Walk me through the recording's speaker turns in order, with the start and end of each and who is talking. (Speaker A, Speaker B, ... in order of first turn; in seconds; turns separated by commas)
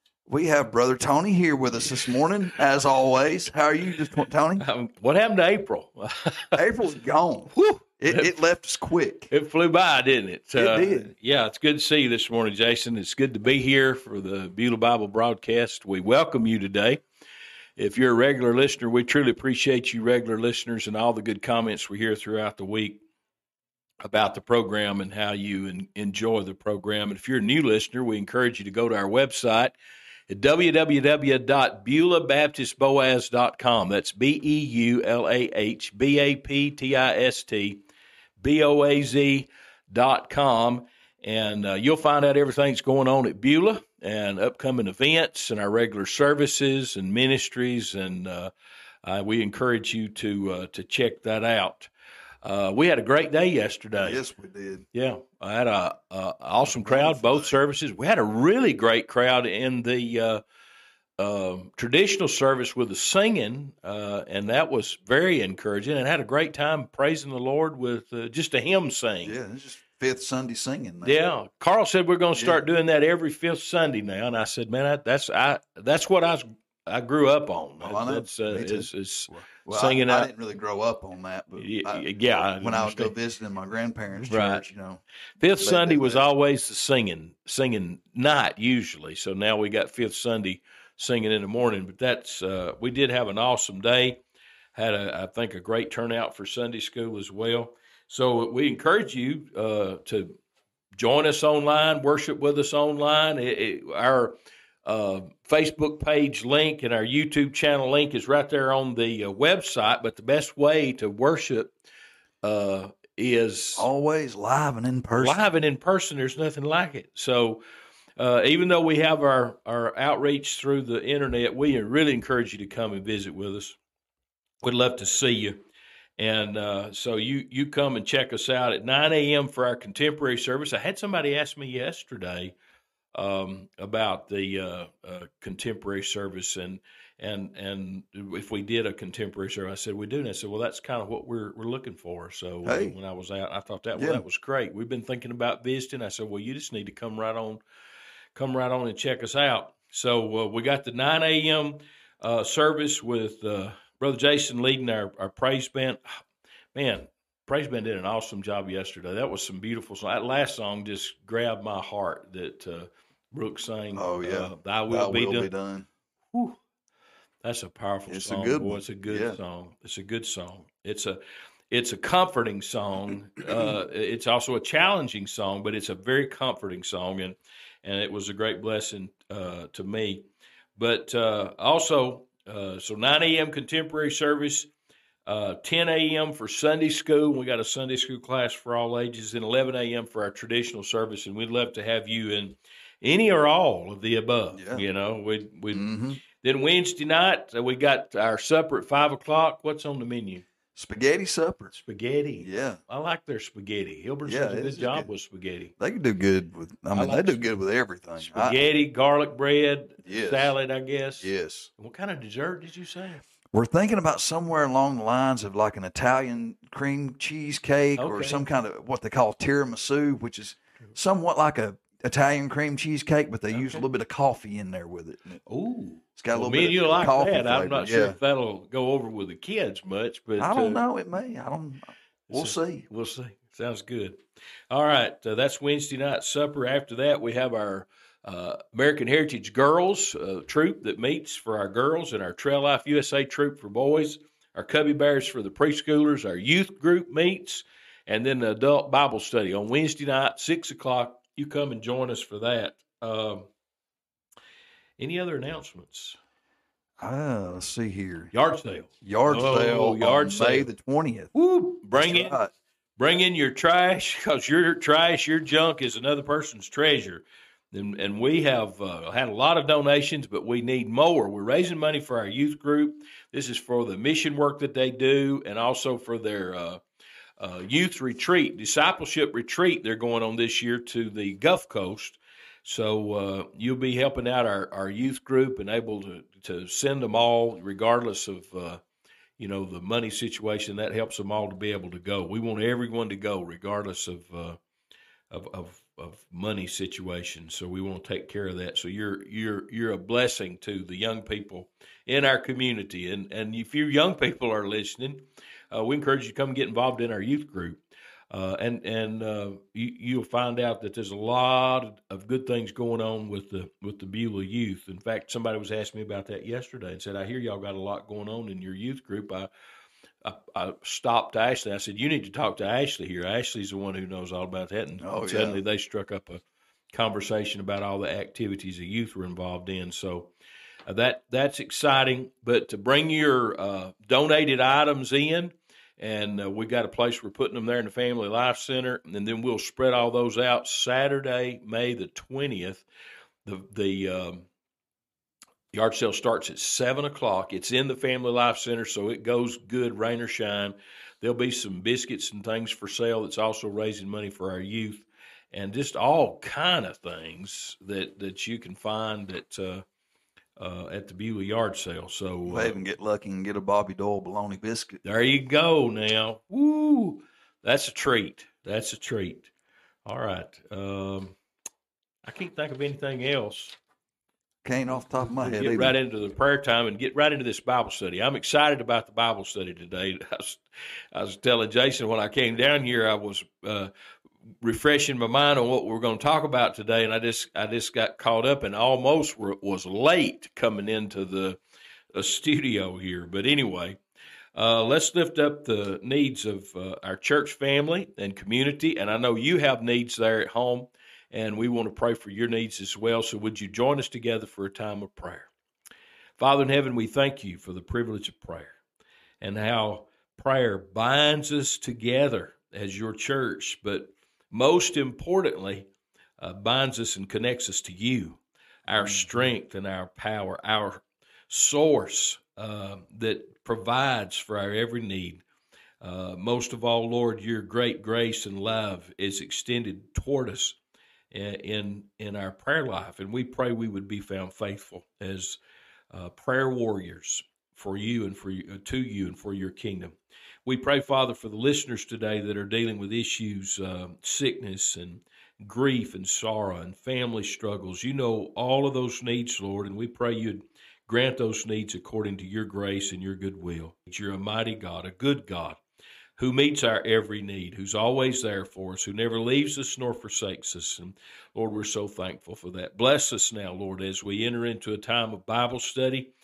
Speaker A: 0.3-4.6, Speaker B: 4.6-6.6, Speaker A: 6.5-9.3, Speaker B: 7.5-8.3, Speaker B: 9.3-17.0, Speaker A: 10.5-11.1, Speaker B: 17.8-23.0, Speaker B: 24.0-29.7, Speaker B: 30.3-37.8, Speaker B: 38.4-48.5, Speaker B: 49.0-51.9, Speaker B: 52.4-54.2, Speaker A: 54.0-54.9, Speaker B: 54.9-60.4, Speaker A: 56.6-57.5, Speaker B: 61.2-69.4, Speaker A: 69.2-71.2, Speaker B: 71.0-80.3, Speaker A: 77.8-82.0, Speaker B: 81.6-83.1, Speaker A: 82.6-85.0, Speaker B: 84.3-84.6, Speaker B: 85.4-94.2, Speaker A: 85.6-86.3, Speaker B: 94.7-100.4, Speaker B: 101.0-111.7, Speaker B: 112.4-113.9, Speaker A: 113.8-115.4, Speaker B: 115.2-117.6, Speaker B: 118.2-123.8, Speaker B: 124.6-125.6, Speaker B: 126.2-132.5, Speaker B: 133.1-147.6, Speaker A: 142.6-142.9, Speaker A: 143.9-144.2, Speaker B: 148.3-156.2, Speaker B: 156.7-165.5, Speaker A: 163.9-165.9, Speaker B: 166.3-166.6, Speaker B: 167.4-171.2, Speaker A: 168.1-169.4, Speaker B: 171.7-184.7, Speaker A: 173.4-173.7, Speaker B: 185.2-200.4, Speaker A: 194.5-194.8, Speaker A: 195.7-196.2, Speaker A: 200.7-201.7, Speaker B: 201.7-205.7, Speaker A: 202.4-202.8, Speaker A: 204.2-205.1, Speaker A: 205.8-208.6, Speaker B: 206.9-207.4, Speaker B: 208.3-213.2, Speaker A: 210.0-210.5, Speaker A: 211.2-211.7, Speaker A: 213.5-225.4, Speaker B: 218.0-218.4, Speaker B: 223.5-223.8, Speaker B: 225.5-230.8, Speaker A: 226.2-228.2, Speaker A: 230.4-232.8, Speaker B: 232.3-253.5, Speaker B: 255.0-256.2, Speaker A: 257.0-258.3, Speaker B: 258.3-260.7, Speaker A: 259.0-261.3, Speaker B: 261.3-262.4, Speaker A: 261.9-262.5, Speaker B: 263.0-276.8, Speaker B: 277.4-288.8, Speaker B: 289.4-294.6, Speaker B: 295.3-319.5, Speaker B: 320.2-330.3, Speaker A: 325.0-325.6, Speaker B: 330.9-342.9, Speaker B: 343.4-344.5, Speaker B: 345.7-359.9, Speaker B: 360.6-362.8, Speaker A: 362.4-365.0, Speaker B: 365.0-369.5, Speaker B: 370.0-371.4, Speaker B: 372.2-373.8, Speaker A: 374.6-376.0, Speaker B: 375.4-383.9, Speaker B: 384.6-391.6, Speaker B: 392.1-394.0, Speaker B: 394.5-405.5, Speaker B: 406.4-408.8, Speaker B: 409.4-425.4, Speaker A: 418.9-419.4, Speaker B: 426.0-430.8, Speaker B: 431.3-435.6, Speaker B: 436.1-455.8, Speaker B: 456.4-466.3